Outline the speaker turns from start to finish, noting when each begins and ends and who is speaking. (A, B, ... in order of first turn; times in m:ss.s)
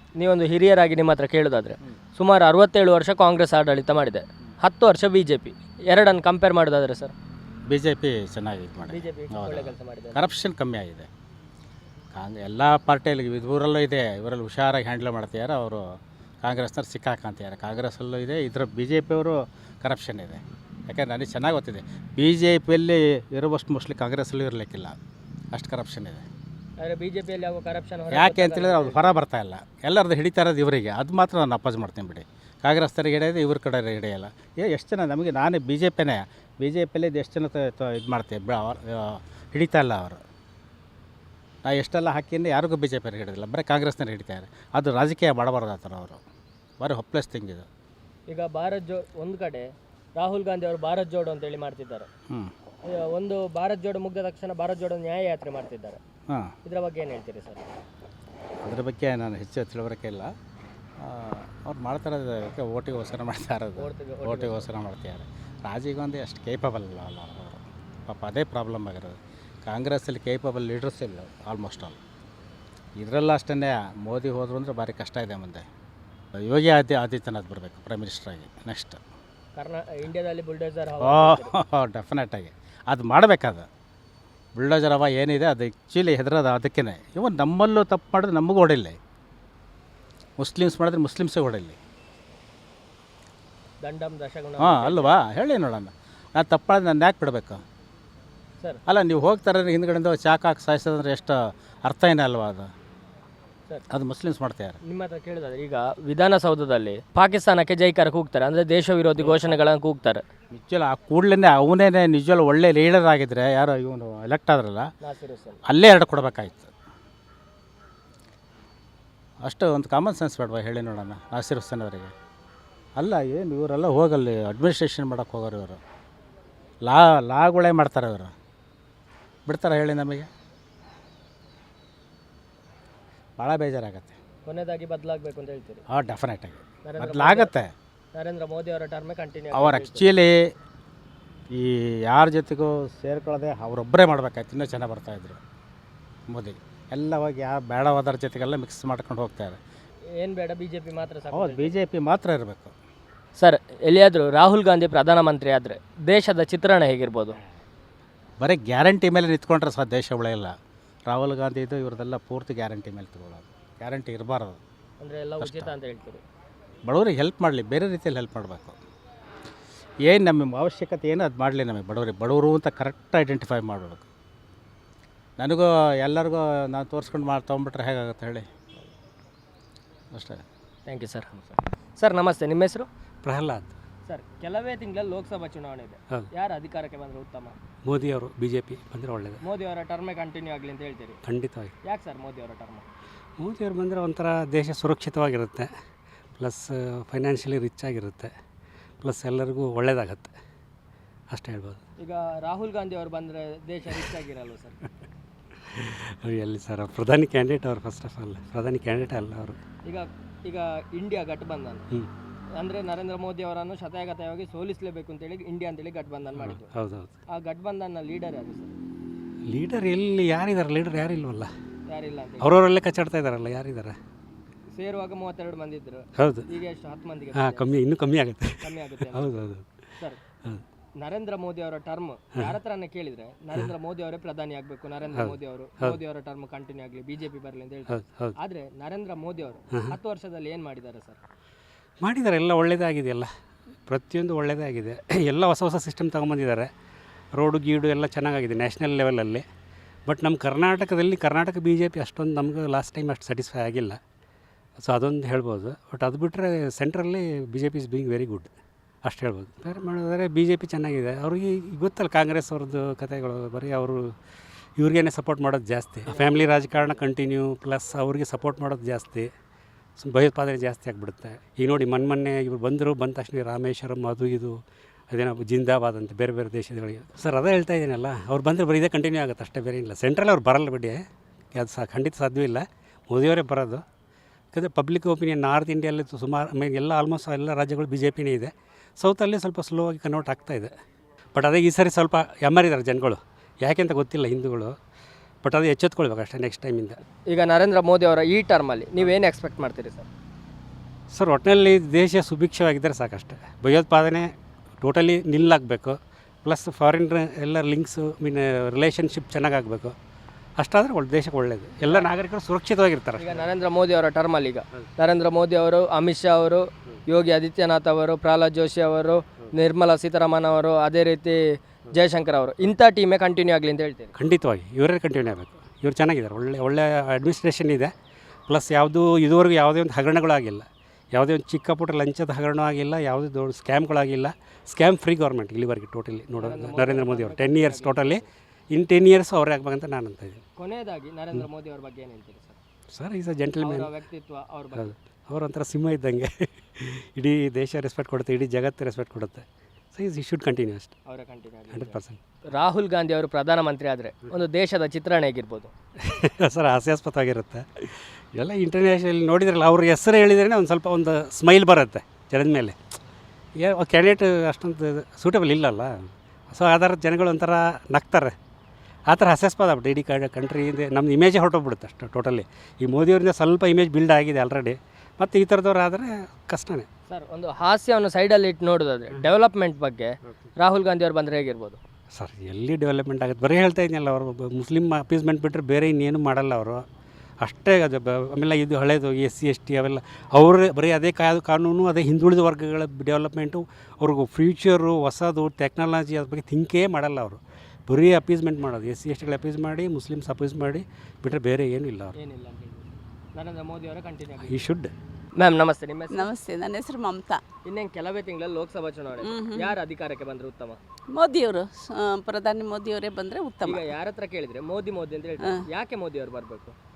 0:00.2-0:07.1 A
0:07.7-0:11.1 B
0:08.9-0:10.3 A
0:12.1-0:25.0 B
0:25.5-0:26.2 B
0:26.8-0:29.2 A
0:28.1-0:40.2 B
0:41.6-0:46.2 B
0:46.8-0:47.6 B
0:48.3-0:52.1 A
0:52.8-0:56.0 A
0:56.6-0:57.7 A
0:58.6-1:00.3 B
1:01.0-1:12.0 B
1:03.8-1:04.7 A
1:13.0-1:15.6 B
1:16.4-1:19.0 B
1:19.6-1:21.5 A
1:21.0-1:23.7 B
1:24.6-1:29.0 B
1:30.4-1:31.8 B
1:33.8-1:35.1 A
1:34.6-1:37.6 B
1:38.9-1:42.7 B
1:43.9-1:44.8 B
1:44.8-1:50.2 A
1:49.2-1:49.6 B
1:50.5-1:54.9 B
1:55.0-1:55.6 A
1:55.7-1:56.7 B
1:59.4-2:02.1 B
2:03.0-2:05.8 B
2:06.8-2:08.3 B
2:09.5-2:10.3 B
2:13.4-2:14.2 B
2:14.4-2:15.8 A
2:15.9-2:17.7 B
2:16.8-2:17.5 A
2:18.1-2:20.1 A
2:19.5-2:20.5 B
2:21.5-2:25.4 B
2:26.3-2:29.6 B
2:30.2-2:31.7 A
2:31.3-2:32.7 B
2:33.4-2:37.4 A
2:38.4-2:40.5 B
2:41.1-2:44.6 B
2:45.0-2:46.2 A
2:45.4-2:45.7 B
2:46.8-2:48.8 B
2:50.0-2:54.0 B
2:55.4-2:58.5 B
3:00.1-3:00.4 B
3:00.9-3:02.9 A
3:03.2-3:03.7 C
3:04.1-3:07.5 A
3:07.8-3:09.4 C
3:09.4-3:11.2 A
3:11.2-3:11.7 C
3:11.8-3:12.8 A
3:13.4-3:15.7 C
3:16.4-3:18.3 C
3:19.0-3:20.3 C
3:21.3-3:21.8 C
3:22.0-3:24.8 A
3:25.7-3:29.6 C
3:29.8-3:31.8 A
3:32.6-3:36.7 A
3:36.4-3:37.1 C
3:37.3-3:38.8 A
3:39.5-3:41.5 C
3:41.9-3:42.6 A
3:42.4-3:43.9 C
3:44.7-3:47.7 A
3:46.2-3:46.5 C
3:47.4-3:49.6 C
3:48.6-3:49.4 A
3:51.0-4:01.2 A
3:55.1-3:56.0 C
3:57.9-3:58.3 C
4:02.0-4:03.3 C
4:03.9-4:06.7 C
4:07.3-4:09.4 C
4:10.1-4:14.0 C
4:14.8-4:18.5 C
4:19.0-4:24.1 C
4:24.8-4:29.3 C
4:26.1-4:27.0 A
4:30.0-4:34.6 C
4:35.1-4:41.0 C
4:41.5-4:43.8 C
4:44.5-4:50.7 C
4:51.3-4:54.7 C
4:55.4-4:57.0 C
4:57.3-5:00.1 A
5:01.1-5:09.9 C
5:10.6-5:13.4 C
5:13.2-5:24.1 A
5:24.2-5:27.9 C
5:28.5-5:40.4 C
5:36.4-5:38.2 A
5:40.6-5:42.6 A
5:42.9-5:43.9 C
5:43.6-5:44.9 A
5:44.8-5:50.9 C
5:51.0-5:52.0 A
5:51.7-5:52.2 C
5:52.5-5:55.7 A
5:56.0-6:02.8 C
6:03.6-6:08.3 C
6:09.1-6:16.9 C
6:17.1-6:21.8 A
6:22.1-6:26.8 C
6:27.4-6:42.1 C
6:42.2-6:44.6 A
6:44.4-6:44.9 C
6:45.4-6:46.3 A
6:46.1-6:47.4 D
6:47.6-6:50.8 A
6:49.2-6:49.8 D
6:51.1-6:53.9 D
6:53.6-6:56.7 A